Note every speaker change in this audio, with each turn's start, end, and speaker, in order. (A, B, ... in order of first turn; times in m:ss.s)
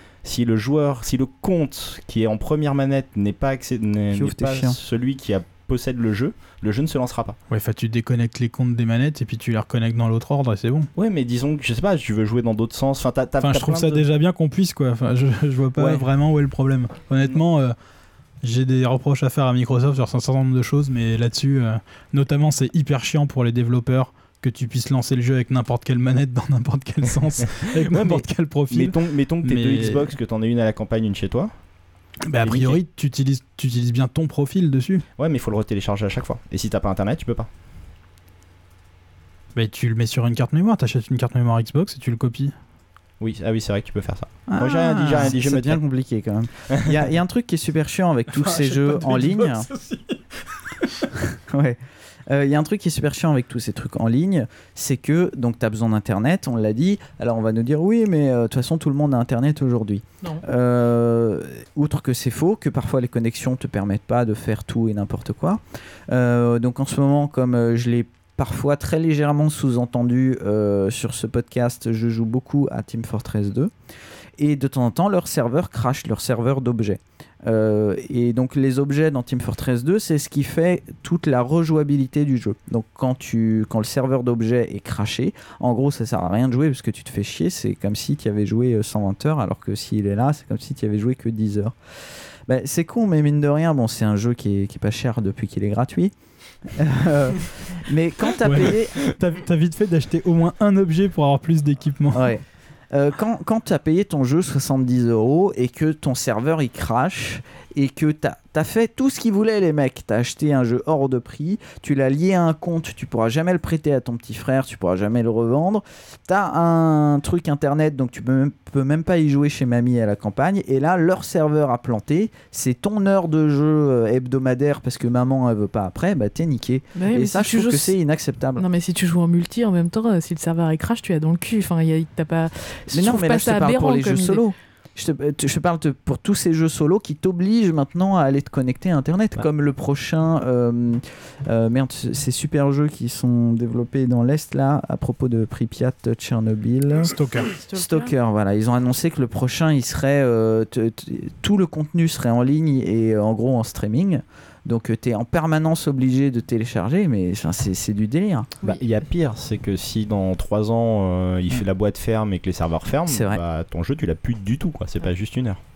0:00.2-0:07.4 A
0:04.1-0:04.8 B
0:07.5-0:10.9 C
0:11.0-0:14.0 A
0:13.4-0:17.7 C
0:15.8-0:16.0 A
0:18.4-0:30.1 C
0:27.6-0:31.5 A
0:32.3-0:35.0 C
0:32.4-0:32.8 A
0:35.2-0:37.5 A
0:39.6-0:42.5 C
0:43.2-0:45.8 A
0:44.5-0:45.3 C
0:45.2-0:49.7 B
0:48.3-0:50.6 C
0:51.5-0:51.8 B
0:52.3-1:13.7 B
1:14.4-1:39.1 B
1:38.4-1:42.3 C
1:42.1-2:08.6 B
2:06.9-2:08.0 D
2:08.6-2:14.4 D
2:12.9-2:27.1 B
2:27.1-2:27.5 C
2:27.5-2:28.1 D
2:27.7-2:38.5 B
2:38.6-2:45.6 A
2:43.1-2:43.4 B